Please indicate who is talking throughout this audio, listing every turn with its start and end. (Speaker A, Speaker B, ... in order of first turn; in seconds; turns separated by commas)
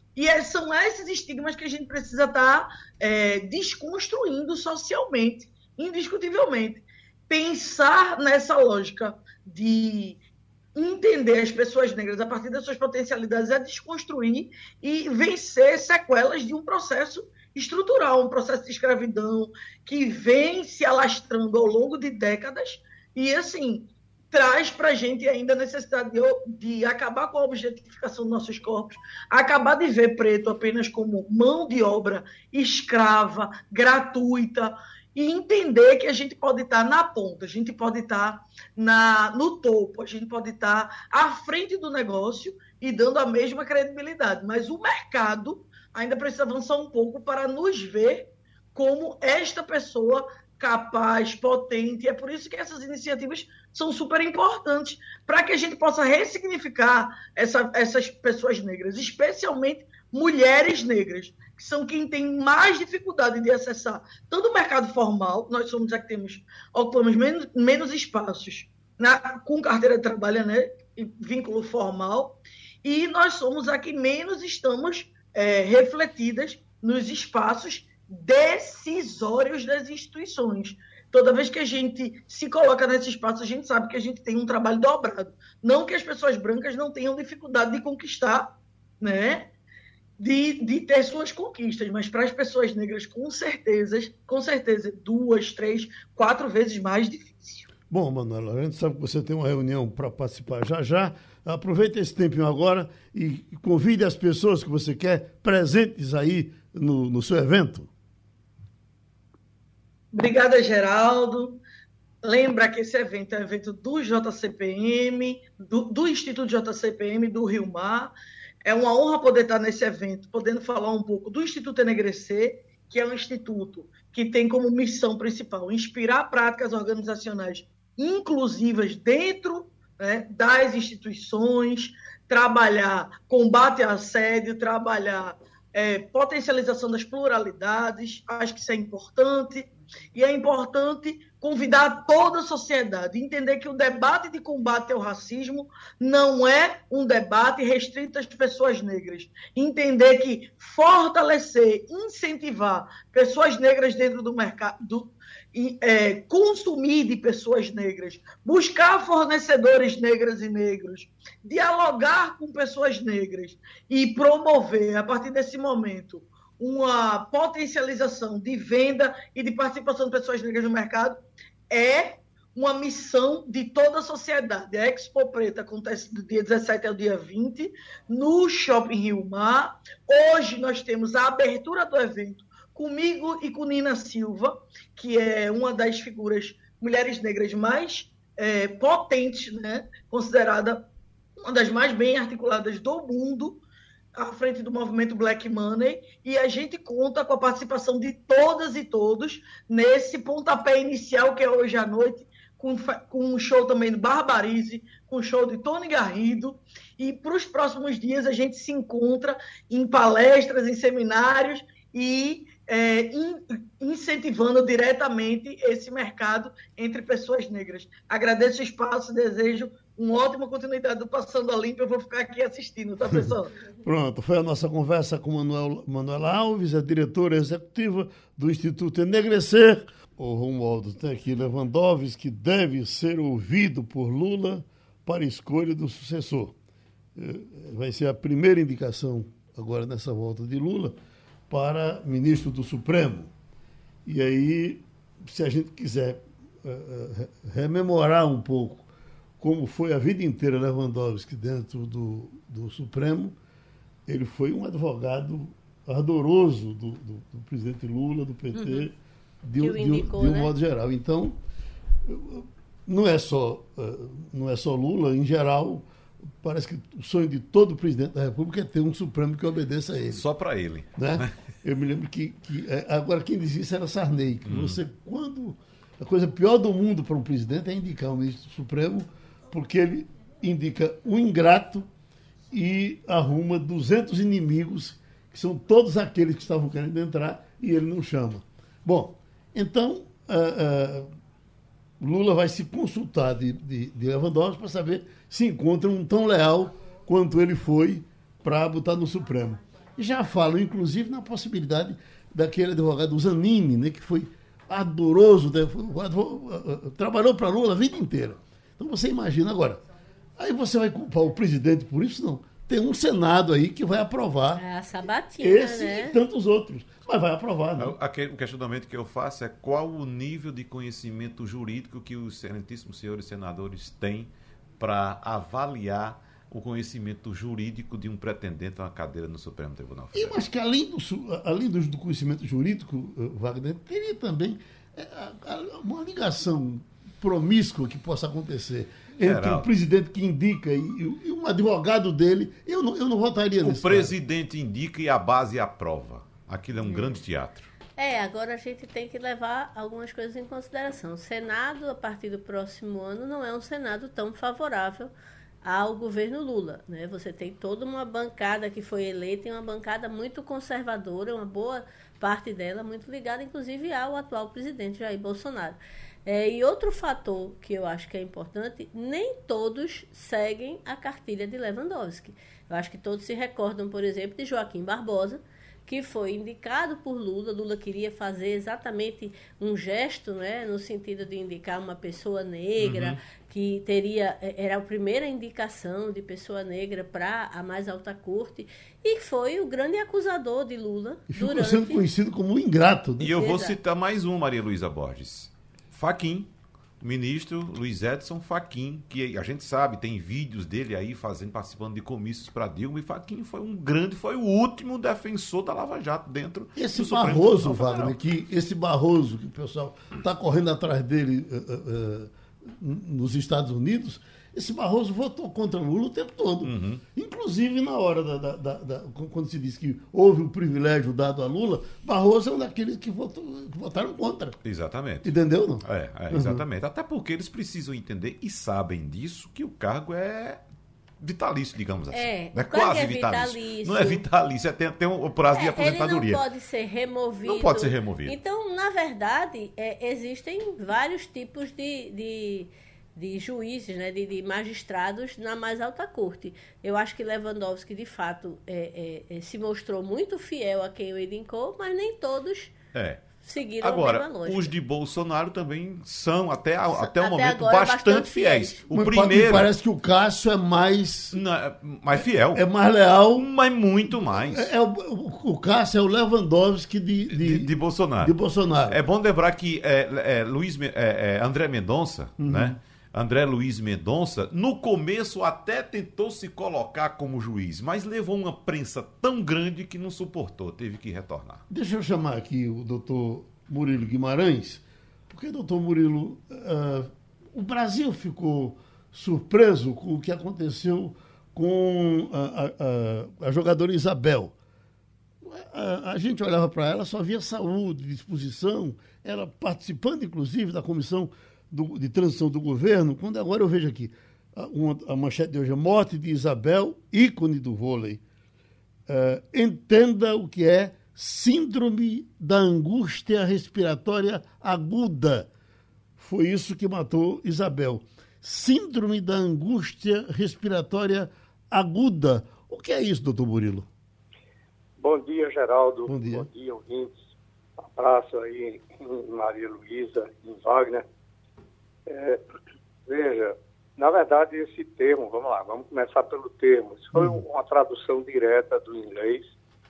Speaker A: 0.2-10.2, Speaker A: 10.8-89.5, Speaker A: 90.2-97.7, Speaker B: 97.9-107.9, Speaker A: 110.1-111.6, Speaker A: 112.2-171.2, Speaker A: 171.7-190.9, Speaker A: 191.4-193.6, Speaker A: 194.2-223.6, Speaker B: 223.8-236.6, Speaker B: 237.2-241.0, Speaker B: 241.5-243.3, Speaker B: 244.1-248.9, Speaker B: 249.4-253.4, Speaker B: 254.1-261.4, Speaker C: 258.5-258.9, Speaker C: 259.6-260.5, Speaker B: 262.1-265.9, Speaker B: 266.4-270.2, Speaker D: 270.1-271.4, Speaker B: 270.9-281.9, Speaker D: 274.5-274.8, Speaker B: 282.5-291.1, Speaker B: 292.0-309.8, Speaker B: 310.4-314.6, Speaker C: 314.6-316.2, Speaker B: 315.4-318.0, Speaker D: 317.8-330.4, Speaker B: 330.1-344.1, Speaker D: 339.2-339.7, Speaker D: 343.6-347.7, Speaker C: 346.9-347.1, Speaker C: 348.0-355.1, Speaker C: 355.6-392.0, Speaker D: 382.8-383.2, Speaker B: 391.3-393.4, Speaker D: 393.2-408.1, Speaker C: 393.4-393.8, Speaker B: 406.8-424.6, Speaker D: 416.6-417.0, Speaker D: 424.6-425.3, Speaker B: 425.2-426.6, Speaker D: 425.8-430.6, Speaker D: 431.2-436.4, Speaker C: 432.1-434.2, Speaker C: 435.5-452.7, Speaker D: 437.4-438.4, Speaker D: 452.9-453.2, Speaker C: 453.4-454.7, Speaker D: 453.8-459.7, Speaker C: 456.9-458.8, Speaker B: 458.9-461.4, Speaker D: 461.3-462.6, Speaker B: 462.5-463.5, Speaker D: 463.4-464.7, Speaker B: 464.2-469.0, Speaker D: 467.3-468.4, Speaker D: 468.9-481.6, Speaker B: 472.4-472.8, Speaker B: 481.7-494.5, Speaker B: 495.4-508.2, Speaker B: 509.1-515.5, Speaker B: 516.2-523.9, Speaker E: 525.0-527.2, Speaker B: 526.1-526.5, Speaker E: 527.8-531.0, Speaker E: 532.1-532.4, Speaker E: 533.1-539.5, Speaker B: 537.1-537.4